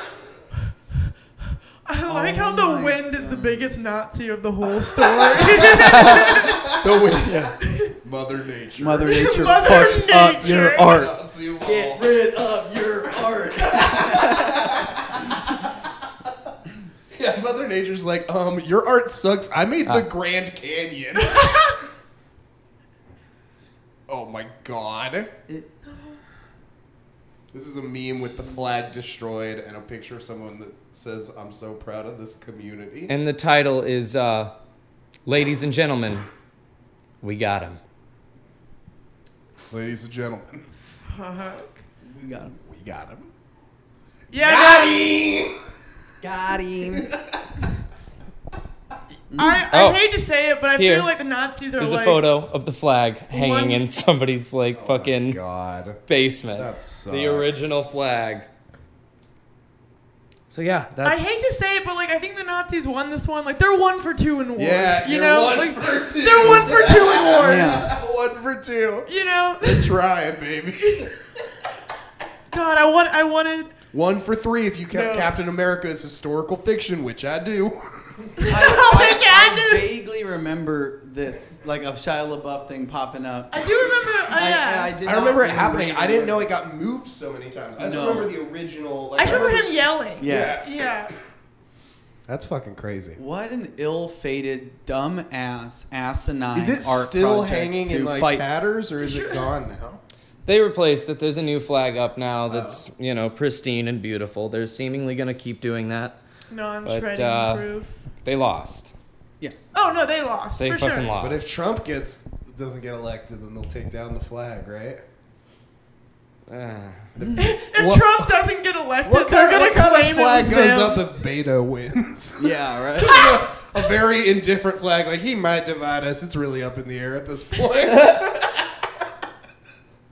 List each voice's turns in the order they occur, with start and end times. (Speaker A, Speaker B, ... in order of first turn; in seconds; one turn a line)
Speaker A: 1.9-6.7
Speaker B: 2.0-3.7
Speaker B: 5.3-7.5
Speaker C: 5.5-15.6
Speaker A: 7.6-7.9
Speaker B: 8.8-15.0
Speaker A: 9.0-11.0
Speaker C: 17.1-21.7
Speaker A: 21.2-21.8
Speaker C: 24.1-25.3
Speaker A: 25.9-26.2
Speaker C: 27.5-33.1
Speaker D: 33.1-34.5
Speaker D: 35.2-36.3
Speaker D: 37.2-37.8
Speaker C: 39.7-40.7
Speaker A: 41.1-41.8
Speaker B: 42.0-42.6
Speaker C: 42.6-43.3
Speaker A: 44.3-45.1
Speaker C: 44.4-45.5
Speaker B: 46.2-47.1
Speaker C: 46.9-47.4
Speaker B: 49.3-49.6
Speaker A: 49.3-52.2
Speaker D: 49.7-50.0
Speaker D: 50.8-51.1
Speaker D: 51.8-55.4
Speaker A: 53.3-53.8
Speaker C: 54.7-56.0
Speaker D: 56.0-58.5
Speaker C: 56.5-57.7
Speaker D: 60.5-61.4
Speaker A: 61.0-67.9
Speaker C: 64.6-69.1
Speaker B: 66.4-66.7
Speaker B: 67.3-67.9
Speaker A: 69.1-70.0
Speaker C: 69.6-71.1
Speaker A: 70.8-71.1
Speaker A: 72.5-73.7
Speaker C: 73.9-78.6
Speaker B: 74.9-75.3
Speaker A: 78.4-79.9
Speaker B: 78.4-83.7
Speaker A: 83.5-84.9
Speaker B: 84.3-86.5
Speaker C: 85.0-90.8
Speaker B: 87.8-88.3
Speaker A: 89.2-91.1
Speaker B: 90.2-90.7
Speaker C: 92.3-93.2
Speaker B: 93.2-98.5
Speaker C: 96.5-100.0
Speaker A: 99.0-99.5
Speaker D: 100.5-106.2
Speaker C: 102.5-102.8
Speaker A: 106.5-108.0
Speaker D: 106.8-107.7
Speaker D: 108.2-108.9
Speaker A: 109.7-111.1
Speaker D: 110.6-111.6
Speaker C: 111.2-115.0
Speaker D: 116.5-117.1
Speaker C: 117.1-118.3
Speaker A: 117.4-121.0
Speaker C: 119.0-129.0
Speaker B: 122.4-123.3
Speaker D: 127.9-128.2